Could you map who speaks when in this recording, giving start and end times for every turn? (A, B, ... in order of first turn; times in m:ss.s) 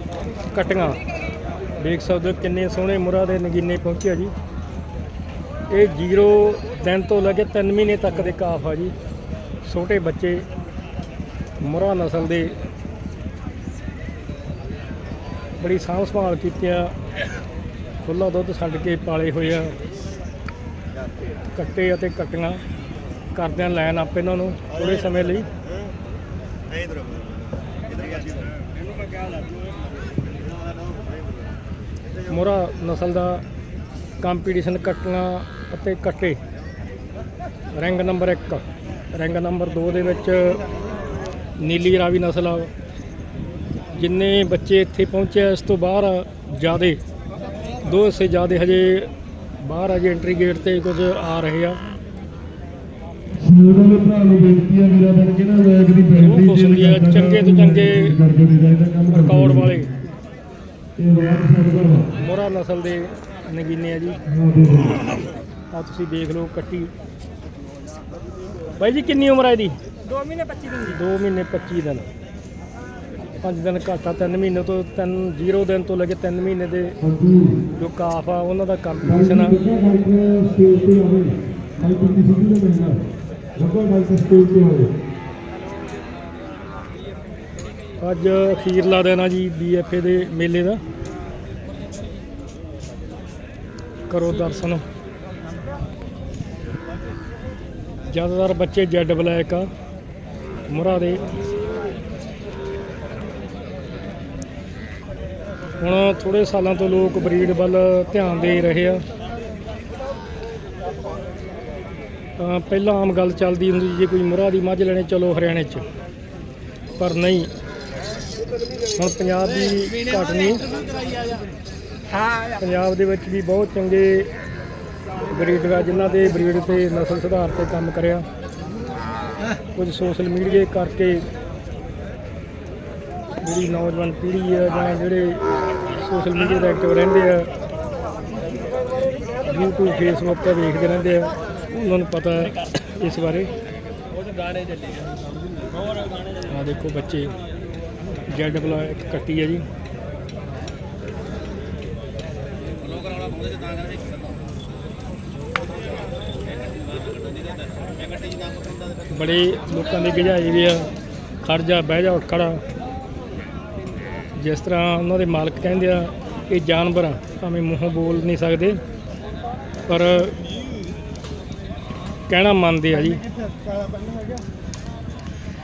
0:00.5-0:01.0 A
0:01.8-0:04.3 A
0:05.7-0:08.9 A
0:09.6-0:10.4 A
0:11.6-0:12.6 A
0:15.6-0:16.9 A
0:18.0-0:19.8 A
0:21.6-0:22.6 A
0:23.4-0:25.5 A
0:32.2-0:33.4 A
0:34.2-0:36.4 A
0:37.7-0:40.6 A
0:41.6-0:42.7 A
0:43.9-0:47.0 A
0:47.8-0:49.1 A
0:49.6-0:51.8 A
0:53.4-0:59.9 B
0:56.1-0:58.2 A
0:59.1-1:00.0 A
1:01.0-1:02.2 B
1:02.1-1:04.2 A
1:04.3-1:05.2 B
1:05.7-1:06.9 A
1:08.8-1:09.8 A
1:10.2-1:10.7 C
1:10.7-1:12.1 A
1:13.4-1:17.0 A
1:17.0-1:17.6 B
1:17.8-1:19.6 A
1:19.0-1:23.1 B
1:23.6-1:24.9 B
1:28.0-1:30.8 A
1:34.1-1:34.8 A
1:38.1-1:39.7 A
1:40.7-1:41.2 A
1:45.8-1:49.0 A
1:52.4-1:55.8 A
1:57.0-1:57.5 A
1:59.0-2:00.7 A
2:02.5-2:04.3 A
2:05.3-2:08.3 A
2:09.8-2:11.2 A
2:13.4-2:17.5 A
2:19.4-2:23.5 A
2:24.2-2:25.1 C
2:26.5-2:27.3 A
2:28.3-2:29.6 A
2:33.1-2:33.8 C
2:39.1-2:40.9 A
2:41.4-2:42.6 A
2:44.4-2:48.8 A
2:49.9-2:50.4 A
2:52.3-2:53.2 A
2:53.6-2:54.3 C